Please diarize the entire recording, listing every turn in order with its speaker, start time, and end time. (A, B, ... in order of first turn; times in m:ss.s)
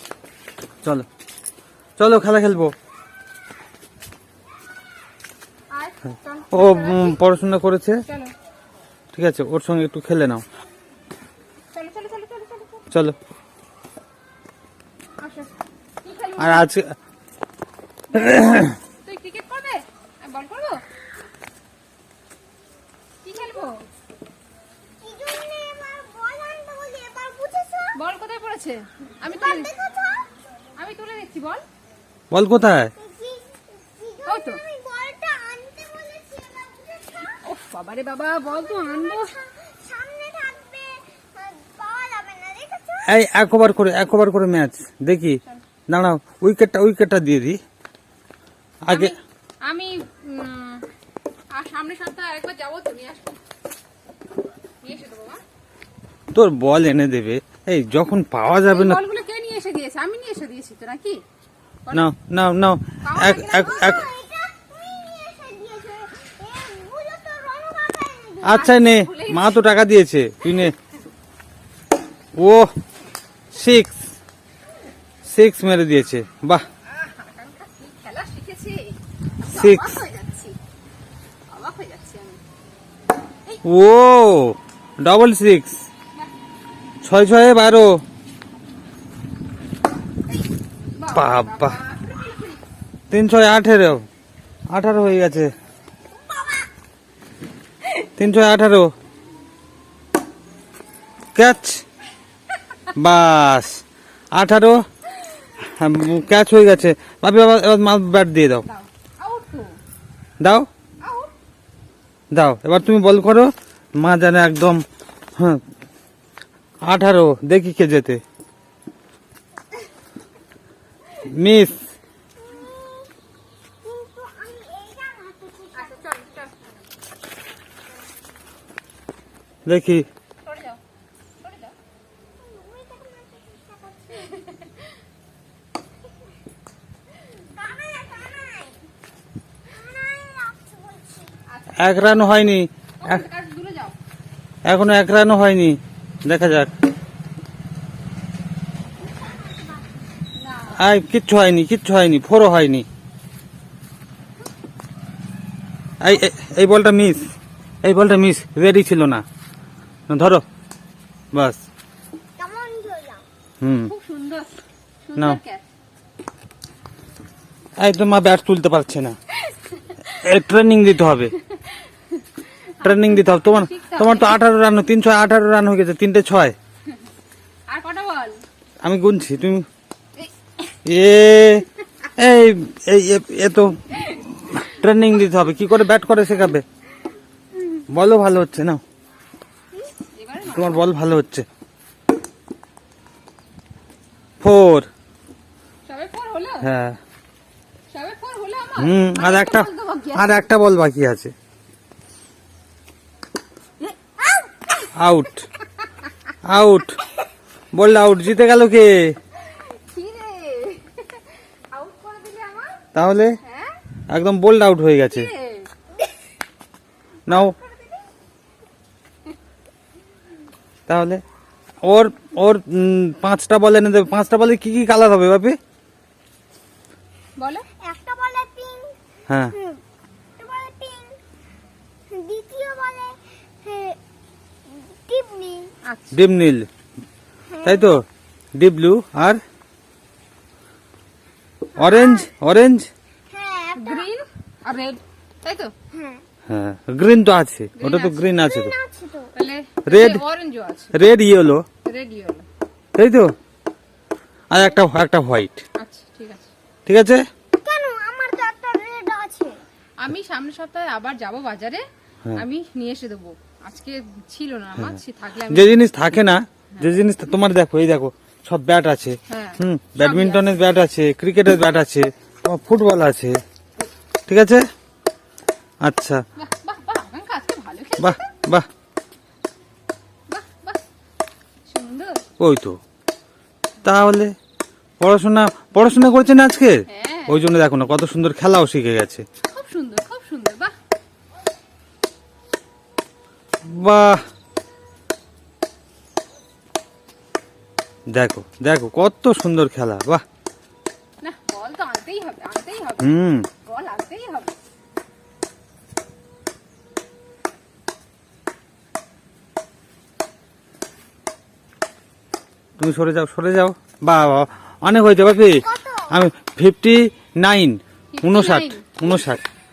0:02.0-0:02.8 A
0:05.7-0:07.2 B
0:06.5-0:08.0 A
0:08.1-0:08.3 B
0:09.1-0:10.4 A
0:11.7-0:12.9 B
0:15.2-0:16.7 B
0:16.4-0:16.9 A
0:18.1-0:20.8 B
0:18.2-0:18.8 A
0:23.2-0:23.8 B
0:25.0-0:28.0 C
0:28.0-0:29.7 B
0:29.2-0:30.3 C
0:30.8-0:31.6 B
0:32.3-0:32.9 A
0:33.0-0:37.4 C
0:34.3-0:34.6 B
0:37.4-0:39.3 B
0:38.5-0:43.1 C
0:43.1-0:47.6 A
0:48.8-0:49.2 A
0:48.9-0:50.8 B
0:51.5-0:53.4 B
0:54.8-0:55.4 B
0:56.3-0:59.0 A
0:58.5-1:01.2 B
1:01.9-1:04.1 A
1:03.0-1:03.8 B
1:03.5-1:08.6 C
1:08.4-1:09.6 B
1:08.4-1:10.7 A
1:10.4-1:10.7 B
1:12.4-1:12.7 A
1:13.5-1:14.0 A
1:15.2-1:16.7 A
1:16.9-1:20.6 B
1:19.5-1:19.9 A
1:21.5-1:22.4 B
1:23.6-1:25.8 A
1:27.0-1:28.0 A
1:31.0-1:32.6 B
1:31.1-1:31.8 A
1:33.1-1:34.1 A
1:34.7-1:35.5 A
1:38.2-1:38.9 A
1:41.4-1:41.8 A
1:42.9-1:44.8 A
1:45.6-1:48.7 A
1:48.6-1:49.8 B
1:50.4-1:50.7 A
1:51.0-1:51.3 B
1:52.3-1:54.8 A
1:55.4-1:55.6 A
1:56.8-1:58.2 A
2:01.2-2:01.9 A
2:02.4-2:03.1 C
2:03.8-2:06.2 C
2:05.7-2:06.5 B
2:09.6-2:10.1 A
2:10.4-2:10.8 B
2:11.4-2:11.8 B
2:12.4-2:14.5 C
2:17.3-2:18.8 C
2:19.7-2:21.4 C
2:21.5-2:24.0 B
2:21.8-2:23.2 A
2:24.6-2:26.7 A
2:29.0-2:29.9 C
2:30.3-2:30.8 B
2:30.8-2:32.9 A
2:36.0-2:37.3 A
2:37.8-2:39.2 A
2:40.1-2:40.4 A
2:41.3-2:41.6 A
2:42.4-2:43.2 C
2:43.6-2:43.9 A
2:43.9-2:45.6 B
2:47.8-2:49.2 A
2:49.5-2:50.2 B
2:50.1-2:51.4 A
2:51.5-2:54.4 B
2:52.8-2:56.6 A
2:57.7-2:58.4 B
2:58.8-2:59.7 A
3:00.8-3:06.6 A
3:07.9-3:08.8 A
3:09.7-3:10.9 B
3:10.4-3:11.5 A
3:14.4-3:14.9 A
3:15.9-3:16.7 B
3:16.6-3:17.0 A
3:17.9-3:20.5 B
3:18.8-3:21.3 A
3:24.9-3:25.5 A
3:26.5-3:27.0 A
3:27.7-3:29.2 A
3:29.4-3:32.8 B
3:32.9-3:33.4 A
3:33.4-3:33.8 B
3:34.1-3:35.3 A
3:35.1-3:35.7 B
3:37.3-3:38.1 B
3:37.3-3:37.6 A
3:40.9-3:41.2 A
3:41.8-3:45.6 A
3:47.4-3:47.7 B
3:47.8-3:49.0 C
3:49.3-3:49.6 A
3:49.5-3:49.8 C
3:50.4-3:51.2 C
3:52.1-3:54.0 C
3:54.7-3:55.7 C
3:55.9-3:56.2 B
3:56.1-3:56.7 A
3:57.5-3:58.0 C
3:57.6-3:58.0 A
3:58.6-3:59.4 A
4:01.8-4:02.9 A
4:01.8-4:02.3 C
4:03.3-4:04.1 C
4:03.8-4:05.7 B
4:05.9-4:06.2 C
4:06.5-4:08.7 A
4:07.8-4:08.3 B
4:08.3-4:09.3 C
4:09.3-4:11.0 B
4:09.9-4:10.2 A
4:10.9-4:11.6 A
4:11.8-4:12.4 B
4:13.0-4:13.3 A
4:14.5-4:15.6 A
4:15.8-4:16.5 B
4:16.9-4:17.3 A
4:17.6-4:19.6 C
4:20.0-4:21.8 B
4:22.4-4:25.8 B
4:25.5-4:33.4 A
4:29.3-4:30.6 B
4:34.3-4:34.7 A
4:35.8-4:36.2 A
4:36.4-4:38.3 B
4:38.0-4:38.7 A
4:40.3-4:40.8 B
4:41.7-4:42.2 B
4:42.4-4:42.8 A
4:43.8-4:44.4 A
4:45.0-4:49.2 A
4:46.9-4:47.5 B
4:49.5-4:50.7 B
4:53.7-4:54.2 A
4:58.1-5:00.2 A
5:01.2-5:04.6 B
5:03.0-5:03.5 A
5:12.8-5:19.4 A
5:15.5-5:16.2 C
5:18.1-5:19.2 B